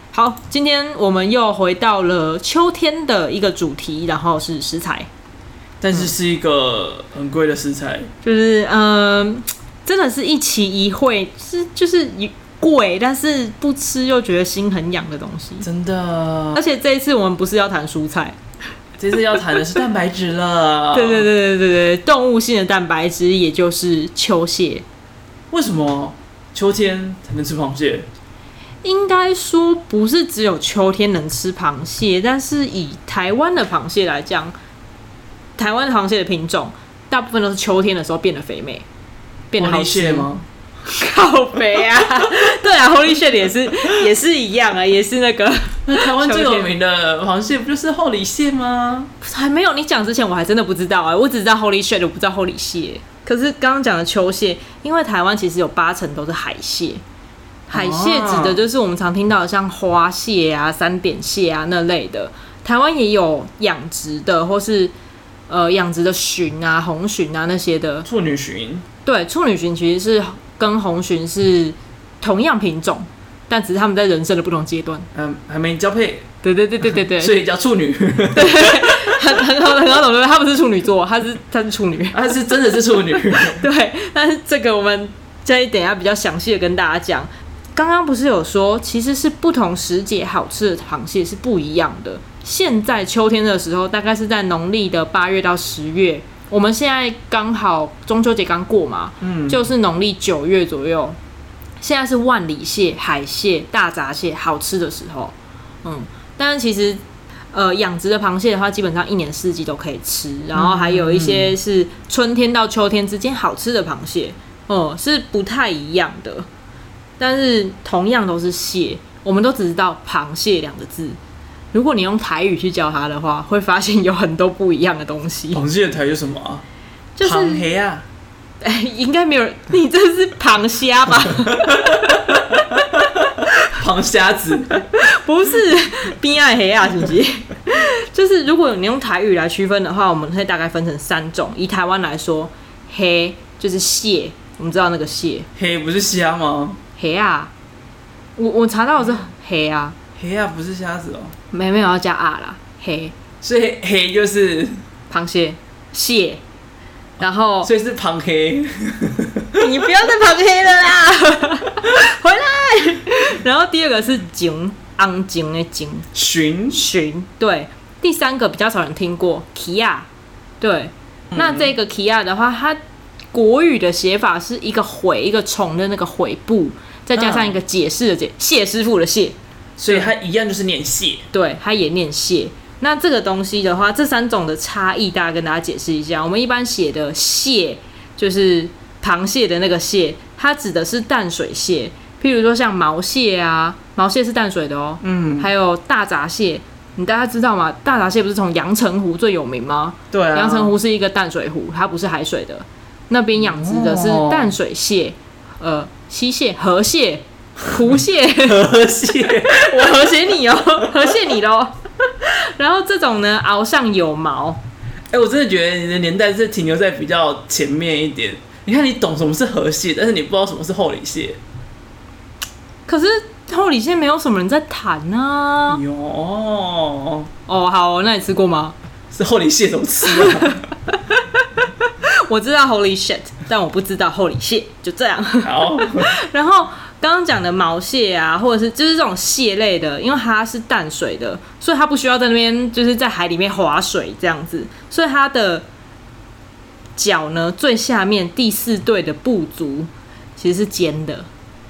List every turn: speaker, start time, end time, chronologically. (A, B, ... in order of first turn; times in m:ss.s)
0:00.1-0:05.1 A
0:05.8-0:08.1 B
0:08.2-0:15.7 A
0:15.6-0:16.6 B
0:16.6-0:18.4 A
0:19.0-0:21.3 B
0:20.9-0:24.8 A
0:25.5-0:28.1 B
0:28.8-0:34.5 A
0:35.6-0:38.8 A
0:39.5-0:40.3 A
0:39.6-0:40.5 B
0:40.8-0:46.7 A
0:45.8-0:49.1 B
0:49.2-0:57.0 A
0:57.7-1:04.9 A
0:57.7-0:58.6 B
1:05.5-1:08.1 A
1:08.0-1:08.9 B
1:09.0-1:15.1 A
1:15.1-1:16.3 B
1:16.4-1:17.3 A
1:17.2-1:19.4 B
1:18.3-1:22.4 A
1:22.1-1:23.6 B
1:23.5-1:41.2 A
1:39.2-1:39.6 B
1:41.8-1:47.0 A
1:47.5-1:56.5 A
1:50.5-1:51.5 B
1:57.2-2:01.2 A
2:01.7-2:05.6 A
2:05.5-2:06.6 B
2:07.2-2:07.7 A
2:07.2-2:08.0 B
2:08.6-2:12.8 A
2:11.4-2:14.8 B
2:14.7-2:25.5 A
2:25.6-2:26.8 B
2:27.0-2:27.5 A
2:28.4-2:30.0 A
2:30.2-2:31.3 B
2:31.5-2:33.1 A
2:33.4-2:34.8 B
2:35.1-2:36.4 A
2:37.2-2:37.7 A
2:37.6-2:39.6 B
2:39.6-2:46.1 A
2:46.1-2:46.8 B
2:46.7-2:50.1 A
2:50.6-2:52.8 A
2:51.3-2:51.7 B
2:53.3-2:59.4 A
2:57.2-2:57.6 B
2:59.8-3:01.3 B
3:01.3-3:28.6 A
3:15.0-3:15.5 B
3:20.1-3:20.7 B
3:23.4-3:24.5 B
3:28.4-3:30.0 B
3:29.4-3:34.6 A
3:35.1-3:41.4 B
3:42.9-3:45.8 A
3:45.7-3:47.3 B
3:47.5-3:48.8 A
3:49.1-3:50.7 B
3:50.1-4:05.7 A
3:55.4-3:56.2 B
4:07.0-4:11.3 A